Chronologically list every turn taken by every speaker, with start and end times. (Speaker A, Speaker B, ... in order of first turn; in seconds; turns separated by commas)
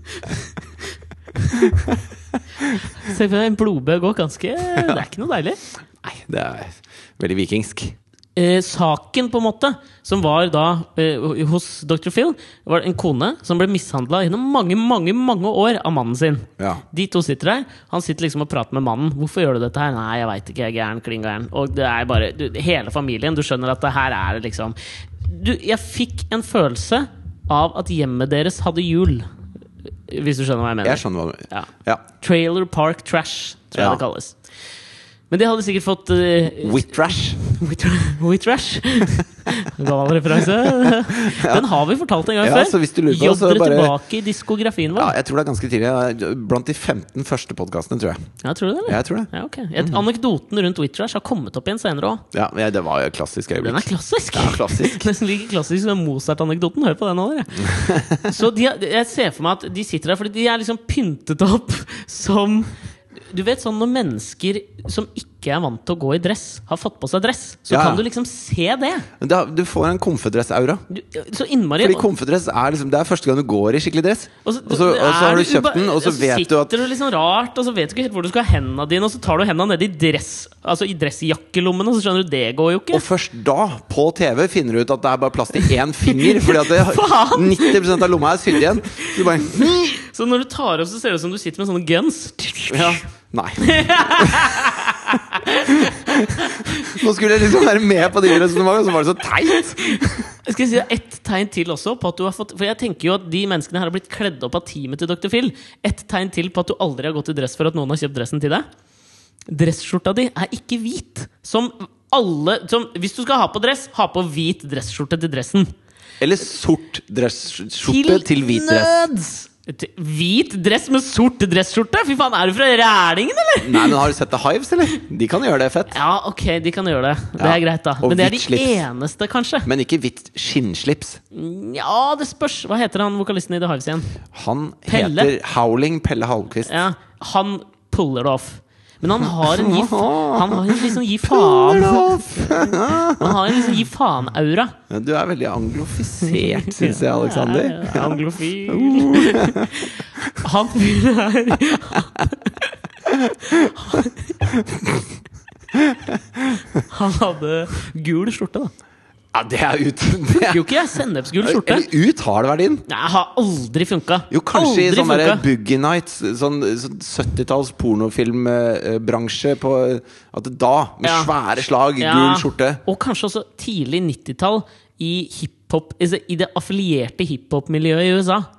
Speaker A: 1.5-2.0, Speaker B: 3.0-5.6, Speaker A: 4.7-5.0, Speaker A: 6.0-8.0, Speaker B: 8.3-29.3, Speaker B: 30.1-34.4, Speaker A: 30.8-32.0, Speaker A: 33.7-34.0, Speaker B: 35.3-45.1, Speaker A: 36.6-37.4, Speaker A: 40.4-41.7, Speaker A: 42.4-43.9, Speaker A: 44.9-48.2, Speaker B: 48.4-52.2, Speaker A: 48.9-50.0, Speaker A: 52.3-55.1, Speaker B: 53.6-62.7, Speaker A: 57.6-58.3, Speaker B: 63.3-69.1, Speaker A: 67.7-68.0, Speaker A: 69.2-70.8, Speaker B: 70.9-72.0, Speaker A: 71.8-76.7, Speaker B: 74.4-83.0, Speaker A: 82.9-90.0, Speaker B: 86.1-88.1, Speaker B: 88.9-93.0, Speaker A: 92.7-100.3, Speaker B: 93.6-97.0, Speaker B: 99.7-108.7, Speaker B: 109.5-115.7, Speaker A: 116.2-119.0, Speaker B: 117.8-124.0, Speaker A: 123.6-125.9, Speaker B: 125.9-129.7, Speaker A: 127.4-128.8, Speaker A: 129.7-131.2, Speaker B: 131.3-134.1, Speaker A: 134.3-136.7, Speaker B: 134.9-135.3, Speaker B: 136.7-144.8, Speaker A: 139.2-143.8, Speaker A: 144.9-150.3, Speaker B: 146.2-152.7, Speaker A: 153.1-153.7, Speaker B: 153.4-154.2, Speaker A: 154.4-155.1, Speaker A: 155.7-156.8, Speaker B: 156.9-158.7, Speaker A: 159.3-160.7, Speaker B: 160.4-161.9, Speaker A: 161.4-162.8, Speaker B: 162.9-165.4, Speaker A: 164.3-172.8, Speaker B: 171.0-171.3, Speaker B: 172.0-178.5